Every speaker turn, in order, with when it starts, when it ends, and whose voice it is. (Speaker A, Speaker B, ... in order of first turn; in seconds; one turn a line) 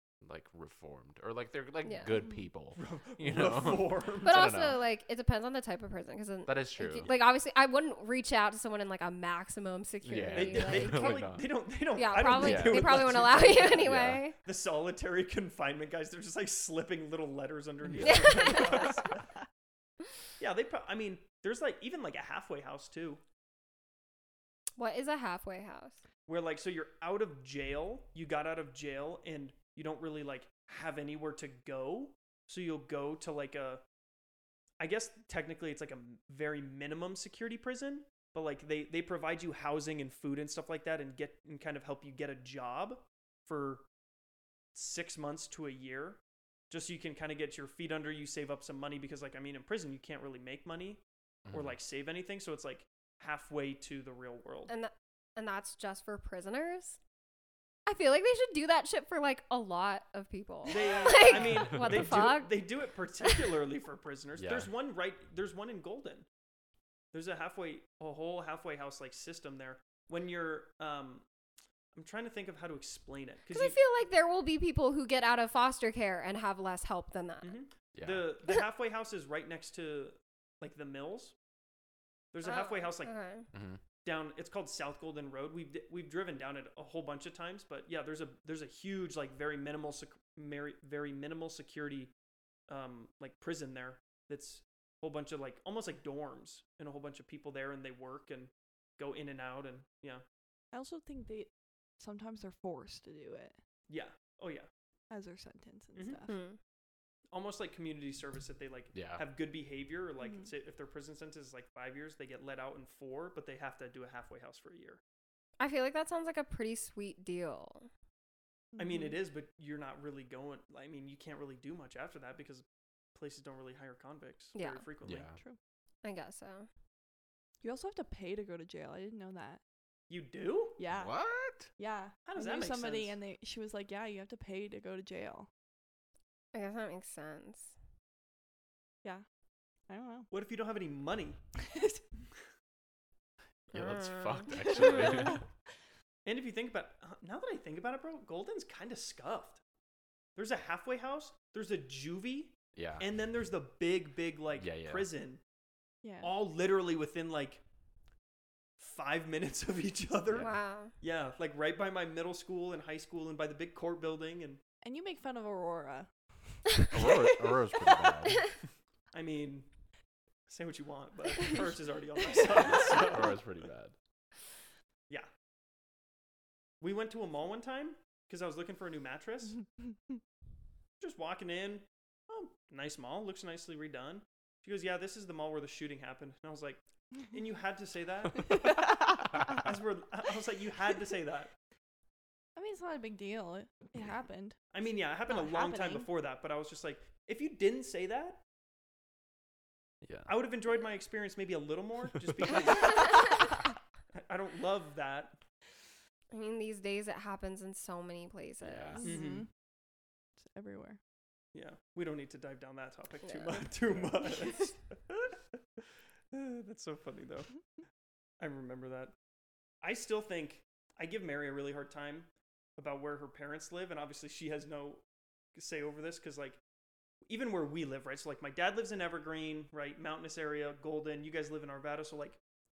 Speaker A: 0.2-4.8
Speaker B: 1.8-2.1
Speaker C: 2.8-4.6
Speaker B: 4.2-11.3
Speaker A: 6.5-7.1
Speaker A: 10.0-11.5
Speaker C: 10.3-19.3
Speaker B: 11.9-14.4
Speaker A: 12.3-14.2
Speaker A: 17.9-18.5
Speaker B: 18.0-19.0
Speaker C: 20.4-23.2
Speaker B: 24.8-26.0
Speaker C: 26.3-33.8
Speaker C: 34.8-43.9
Speaker C: 44.7-54.7
Speaker A: 51.5-51.8
Speaker B: 54.7-57.0
Speaker B: 57.9-62.5
Speaker C: 60.7-66.3
Speaker B: 63.2-63.5
Speaker A: 64.4-64.7
Speaker C: 67.1-71.2
Speaker C: 71.9-73.8
Speaker B: 73.5-77.6
Speaker C: 77.4-81.3
Speaker A: 78.0-78.3
Speaker C: 82.3-83.1
Speaker B: 82.4-83.5
Speaker A: 83.5-83.8
Speaker C: 84.0-92.1
Speaker C: 92.7-100.2
Speaker D: 100.7-103.6
Speaker C: 103.9-104.7
Speaker D: 105.1-106.3
Speaker C: 106.0-106.2
Speaker B: 106.3-106.6
Speaker C: 107.3-115.0
Speaker A: 108.9-109.2
Speaker D: 110.2-110.5
Speaker B: 115.6-117.9
Speaker D: 118.7-119.2
Speaker C: 118.8-125.3
Speaker B: 124.5-124.9
Speaker A: 125.0-125.4
Speaker B: 126.0-126.7
Speaker D: 127.6-129.6
Speaker C: 130.1-130.8
Speaker D: 130.8-131.2
Speaker A: 130.9-131.7
Speaker D: 131.8-135.5
Speaker C: 132.3-133.2
Speaker B: 136.5-137.8
Speaker D: 139.9-140.3
Speaker C: 140.3-141.4
Speaker D: 141.6-142.0
Speaker A: 143.7-145.4
Speaker B: 143.8-144.5
Speaker D: 144.6-145.4
Speaker C: 146.3-149.6
Speaker C: 150.4-155.4
Speaker A: 152.8-153.1
Speaker A: 154.6-155.1
Speaker D: 156.0-156.3
Speaker C: 156.2-157.6
Speaker C: 158.8-164.6
Speaker B: 160.4-160.9
Speaker D: 164.8-166.6
Speaker A: 166.9-168.6
Speaker C: 169.1-169.7
Speaker C: 170.5-173.4
Speaker A: 172.7-173.9
Speaker C: 176.8-179.6
Speaker C: 181.0-191.5
Speaker D: 188.6-189.4
Speaker D: 192.6-194.6
Speaker C: 194.7-198.4
Speaker D: 195.3-196.1
Speaker A: 200.0-200.3
Speaker C: 200.3-203.4
Speaker C: 204.1-205.4
Speaker B: 206.3-209.1
Speaker A: 208.6-209.1
Speaker D: 209.0-209.5
Speaker C: 209.0-209.5
Speaker D: 210.4-211.0
Speaker C: 211.5-217.5
Speaker B: 213.2-213.7
Speaker C: 218.4-219.1
Speaker C: 219.8-225.0
Speaker C: 225.6-226.6
Speaker C: 227.3-232.4